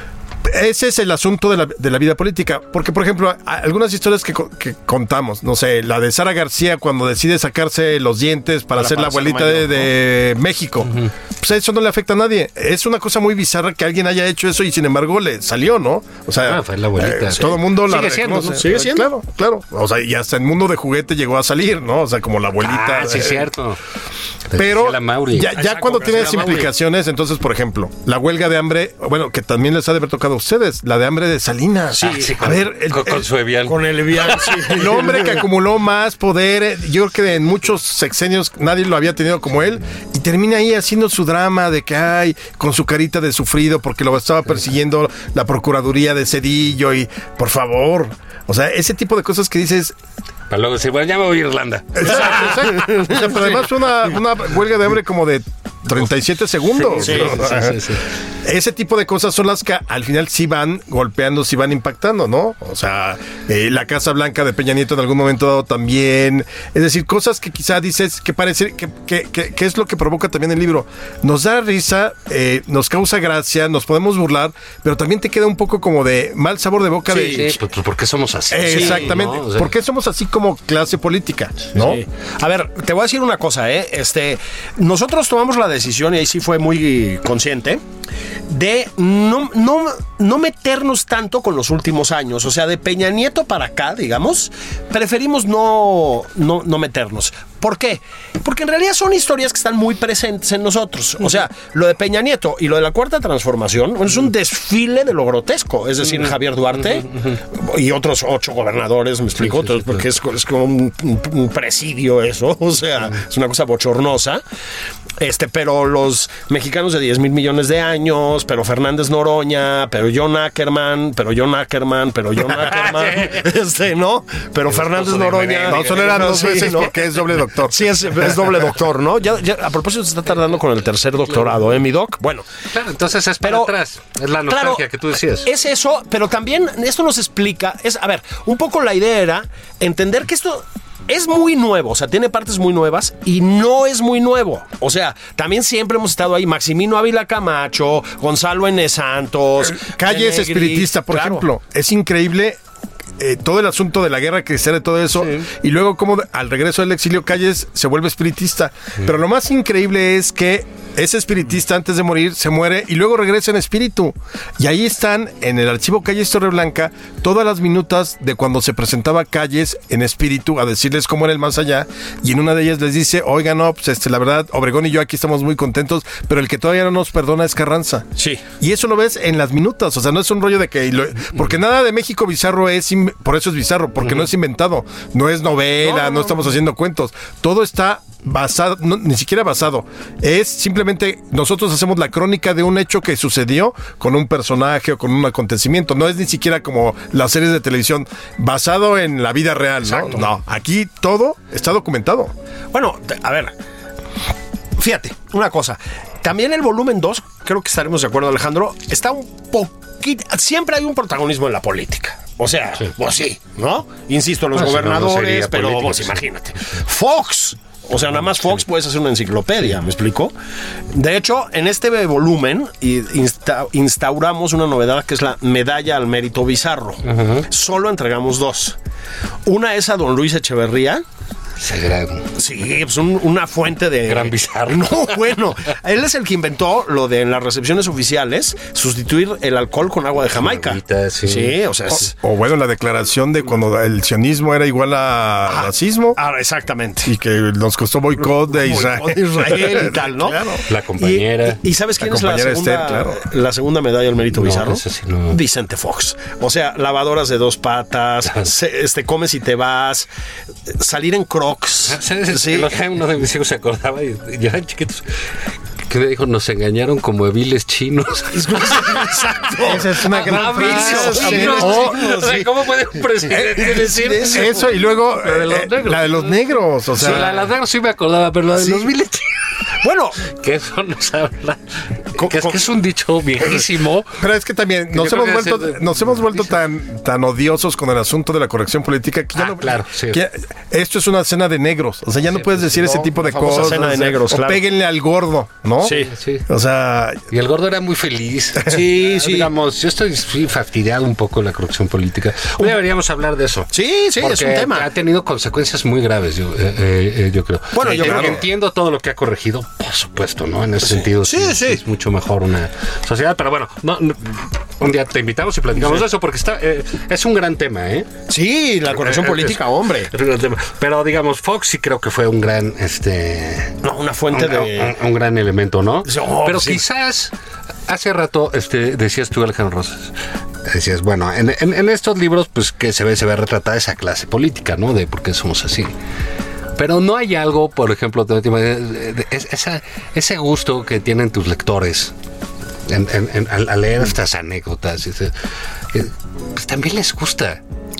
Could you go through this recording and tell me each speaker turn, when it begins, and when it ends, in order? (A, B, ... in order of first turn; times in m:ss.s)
0:00.4-0:23.5 A
0:08.8-0:09.9 B
0:16.4-0:18.7 B
0:18.6-0:19.1 C
0:22.6-0:23.8 B
0:24.5-0:26.6 B
0:24.6-0:33.2 A
0:25.6-0:26.7 C
0:32.0-0:32.3 C
0:32.0-0:34.8 B
0:33.6-0:35.4 C
0:34.7-0:50.0 A
0:50.5-0:52.6 B
0:52.0-0:57.9 A
0:52.3-0:53.5 C
0:56.7-0:58.0 B
0:57.0-0:57.4 C
0:58.4-1:17.5 A
1:17.1-1:17.5 C
1:17.3-1:19.7 B
1:18.5-1:22.0 A
1:18.7-1:19.2 C
1:21.8-1:27.8 C
1:28.5-1:54.4 C
1:49.4-1:50.0 B
1:55.2-2:07.0 C
2:02.7-2:03.5 B
2:04.7-2:06.6 B
2:05.7-2:08.4 A
2:07.6-2:12.5 C
2:12.7-2:15.5 B
2:13.4-2:13.7 C
2:14.5-2:14.9 C
2:15.4-2:31.4 C
2:29.7-2:32.6 A
2:33.2-2:58.1 A
2:58.2-2:58.4 C
2:58.6-3:22.3 A
3:05.8-3:06.5 C
3:22.7-3:23.5 C
3:24.8-3:40.3 C
3:34.5-3:36.2 B
3:40.9-3:48.8 C
3:47.0-3:47.5 B
3:49.5-3:51.0 C
3:51.6-3:52.3 B
3:52.4-4:02.1 C
3:54.1-3:55.2 B
4:00.4-4:01.6 B
4:02.1-4:06.2 A
4:05.5-4:07.1 C
4:07.0-4:10.6 A
4:08.5-4:20.1 C
4:10.6-4:11.6 B
4:12.0-4:13.2 A
4:14.3-4:15.4 B
4:20.7-4:22.7 C
4:21.9-4:25.1 B
4:25.9-4:29.2 B
4:28.3-4:32.5 C
4:29.6-4:32.1 A
4:30.0-4:36.4 B
4:33.3-4:34.5 C
4:33.5-4:37.3 A
4:37.0-4:39.4 B
4:37.0-4:37.3 C
4:38.6-4:38.9 C
4:39.8-4:40.2 C
4:40.2-4:41.6 B
4:42.1-4:44.2 B
4:42.2-4:42.7 C
4:44.2-4:55.9 A
4:44.9-4:46.6 B
4:49.4-4:50.2 B
4:52.3-4:54.0 B
4:52.9-4:54.6 C
4:55.8-4:56.1 C
4:55.8-4:56.5 B
4:56.5-4:57.2 A
4:57.3-5:18.1 B
4:58.7-4:59.5 C
5:03.7-5:04.9 C
5:07.7-5:08.4 C
5:07.9-5:08.3 A
5:10.8-5:11.8 C
5:18.3-5:20.1 C
5:18.9-5:23.8 B
5:23.8-5:25.0 C
5:24.3-5:27.3 B
5:26.0-5:26.8 C
5:27.9-5:30.1 B
5:30.6-5:35.9 B
5:36.8-5:42.1 B
5:42.9-5:45.3 B
5:45.9-5:47.6 B